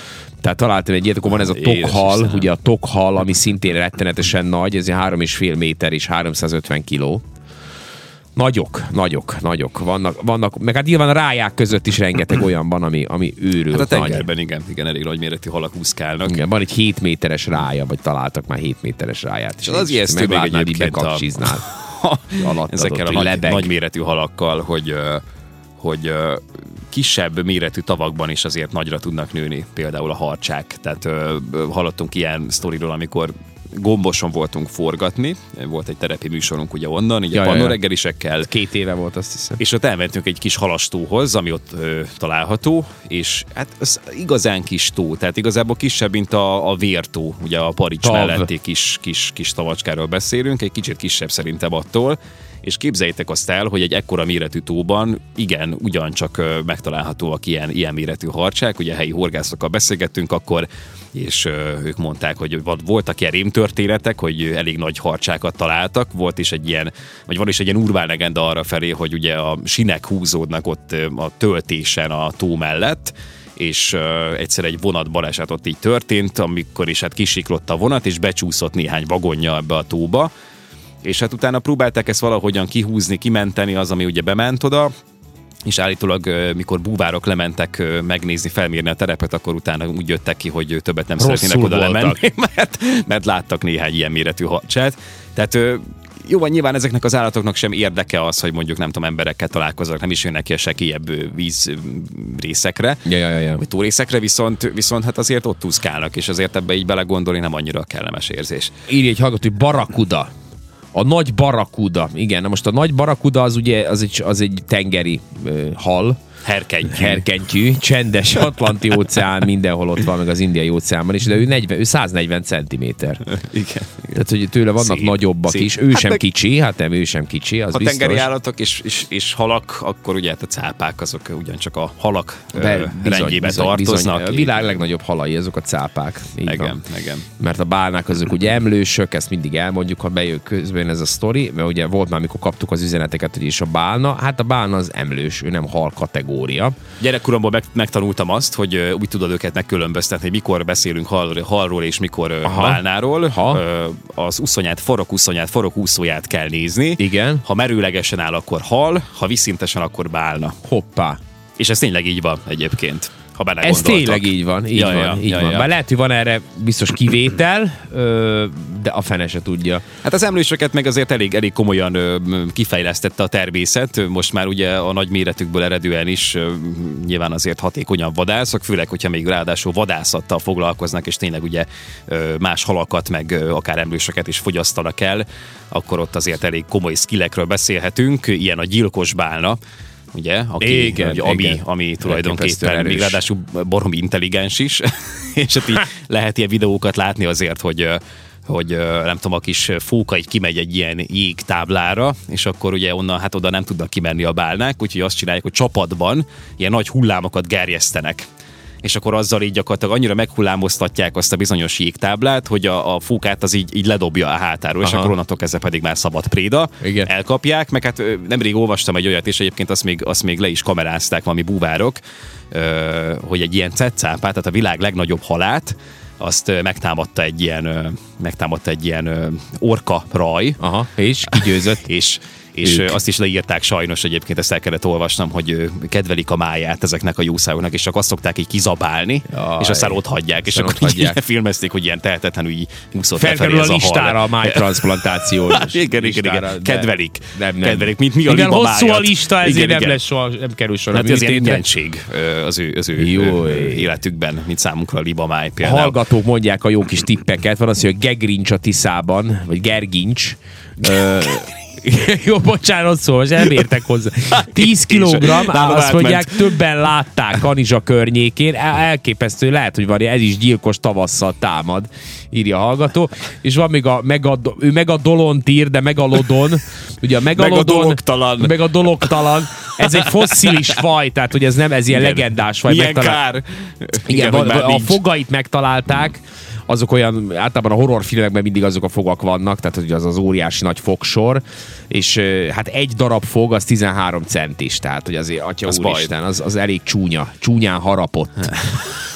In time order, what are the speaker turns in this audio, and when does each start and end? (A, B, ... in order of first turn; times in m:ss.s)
0:00.4-0:07.2 A
0:01.2-0:02.5 B
0:08.4-0:14.3 A
0:13.7-0:16.4 B
0:16.2-0:21.6 A
0:19.6-0:25.2 B
0:22.4-0:23.7 A
0:25.8-0:38.5 B
0:37.3-0:37.8 A
0:38.4-0:39.6 A
0:39.6-1:20.3 B
0:48.0-0:48.5 A
1:21.0-1:24.9 B
1:25.6-1:43.0 B
1:31.2-1:32.2 A
1:43.1-1:43.6 A
1:43.6-1:48.7 B
1:48.9-1:50.3 A
1:50.9-1:56.2 A
1:56.4-1:57.2 B
1:56.8-2:03.2 A
2:03.3-2:04.2 B
2:04.1-2:08.3 A
2:04.8-2:06.2 B
2:07.7-2:14.8 B
2:12.5-2:16.8 A
2:16.4-2:17.2 B
2:17.4-2:26.8 A
2:27.0-2:40.6 B
2:32.4-2:33.6 A
2:37.0-2:37.4 A
2:40.6-2:41.2 A
2:41.6-2:45.7 B
2:43.6-2:49.8 A
2:50.0-3:09.6 B
3:10.1-3:28.2 B
3:10.6-3:13.2 A
3:28.8-3:42.0 B
3:34.8-3:35.1 A
3:36.8-3:37.1 A
3:42.5-3:50.6 B
3:50.6-3:51.8 A
3:51.3-4:10.0 B
3:52.6-3:53.0 A
3:59.3-4:01.2 A
4:03.2-4:11.6 A
4:10.9-4:16.0 B
4:13.0-4:13.9 A
4:15.6-4:43.2 A
4:24.3-4:26.6 B
4:37.4-4:39.2 B
4:39.8-4:40.8 B
4:41.9-4:45.0 B
4:44.0-4:58.6 A
4:55.6-4:56.1 B